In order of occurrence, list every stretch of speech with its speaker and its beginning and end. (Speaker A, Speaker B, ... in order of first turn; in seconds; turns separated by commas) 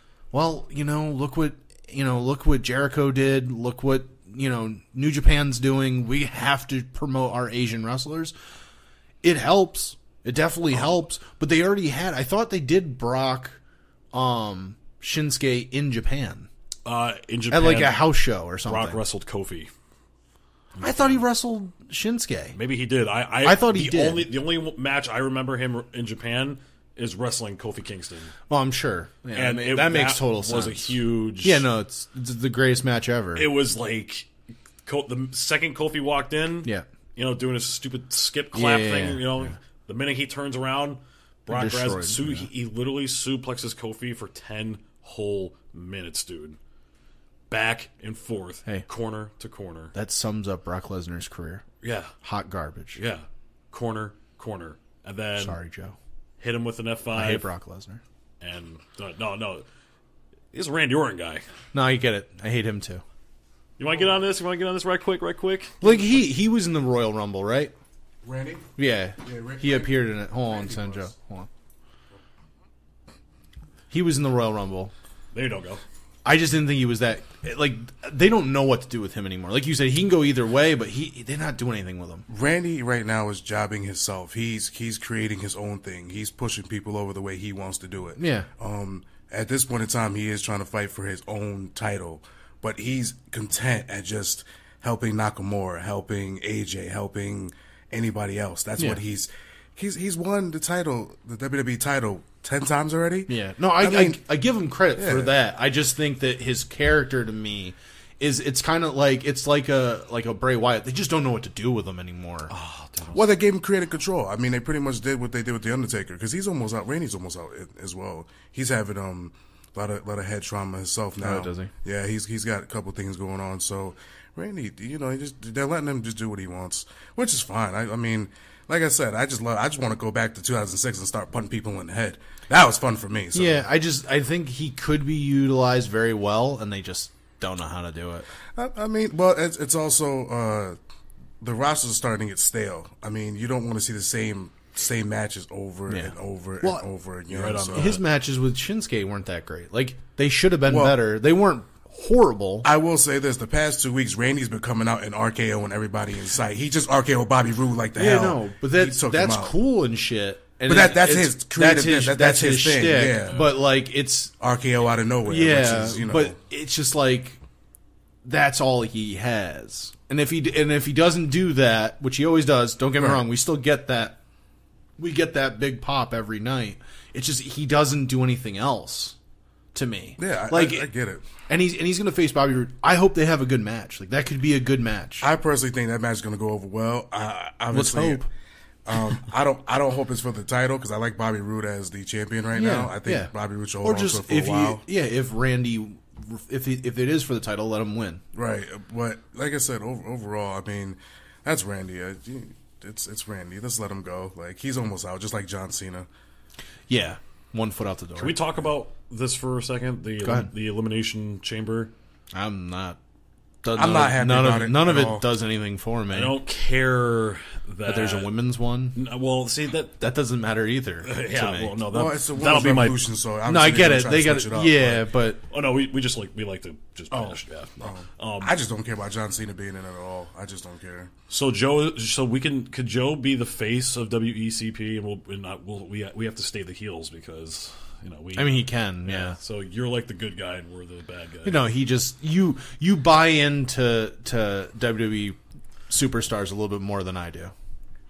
Speaker A: 0.3-8.3, Speaker A: 9.2-13.6, Speaker A: 14.1-16.5, Speaker B: 16.9-18.0, Speaker A: 17.5-19.0, Speaker B: 18.6-19.7, Speaker B: 20.8-21.2, Speaker A: 20.8-22.6, Speaker B: 22.5-28.3, Speaker A: 23.4-24.3, Speaker A: 28.5-33.5, Speaker B: 29.3-31.6, Speaker B: 33.4-34.3, Speaker B: 34.8-46.6, Speaker A: 38.5-39.5, Speaker A: 41.5-42.5, Speaker B: 47.5-49.9, Speaker A: 49.9-51.6, Speaker B: 51.8-52.1, Speaker A: 52.2-53.0, Speaker B: 53.0-55.6, Speaker A: 55.4-56.0, Speaker B: 56.4-57.5, Speaker A: 57.1-58.0, Speaker B: 58.4-59.6, Speaker B: 60.5-61.4, Speaker A: 61.7-63.0, Speaker B: 63.8-65.9, Speaker A: 65.8-67.7, Speaker C: 68.2-68.7, Speaker A: 68.8-71.5, Speaker C: 69.2-71.1, Speaker A: 73.9-74.9, Speaker B: 75.3-75.8, Speaker A: 76.2-82.2, Speaker C: 82.3-104.2, Speaker A: 88.2-88.5, Speaker A: 103.3-112.5, Speaker C: 105.0-105.3, Speaker B: 112.5-113.2, Speaker C: 113.1-133.6, Speaker A: 121.2-121.7, Speaker A: 133.3-138.3, Speaker C: 138.6-140.8, Speaker C: 141.4-147.9, Speaker A: 145.9-146.8, Speaker B: 147.3-148.0, Speaker A: 147.7-152.7, Speaker C: 150.7-150.9, Speaker C: 152.6-159.5, Speaker A: 157.9-164.3, Speaker C: 160.7-163.4, Speaker C: 164.4-166.4, Speaker A: 165.2-167.4, Speaker A: 168.2-174.2, Speaker A: 175.0-179.2, Speaker A: 179.7-180.9, Speaker C: 180.2-181.2, Speaker A: 181.4-185.3, Speaker C: 185.2-188.3, Speaker A: 187.7-188.3, Speaker C: 188.9-194.8, Speaker A: 192.6-198.2, Speaker C: 198.3-206.1, Speaker A: 206.9-208.4, Speaker B: 208.2-211.9, Speaker A: 210.2-210.5, Speaker A: 212.3-213.0, Speaker A: 213.6-216.3, Speaker C: 213.7-215.2, Speaker B: 216.1-218.3, Speaker A: 217.8-218.9, Speaker B: 218.9-220.0, Speaker A: 220.0-221.8, Speaker B: 221.1-223.1, Speaker C: 221.9-225.0, Speaker A: 223.4-225.4, Speaker B: 225.5-228.5, Speaker C: 227.8-231.1, Speaker B: 231.3-241.6, Speaker A: 238.3-239.4, Speaker A: 241.4-245.4, Speaker A: 245.9-247.5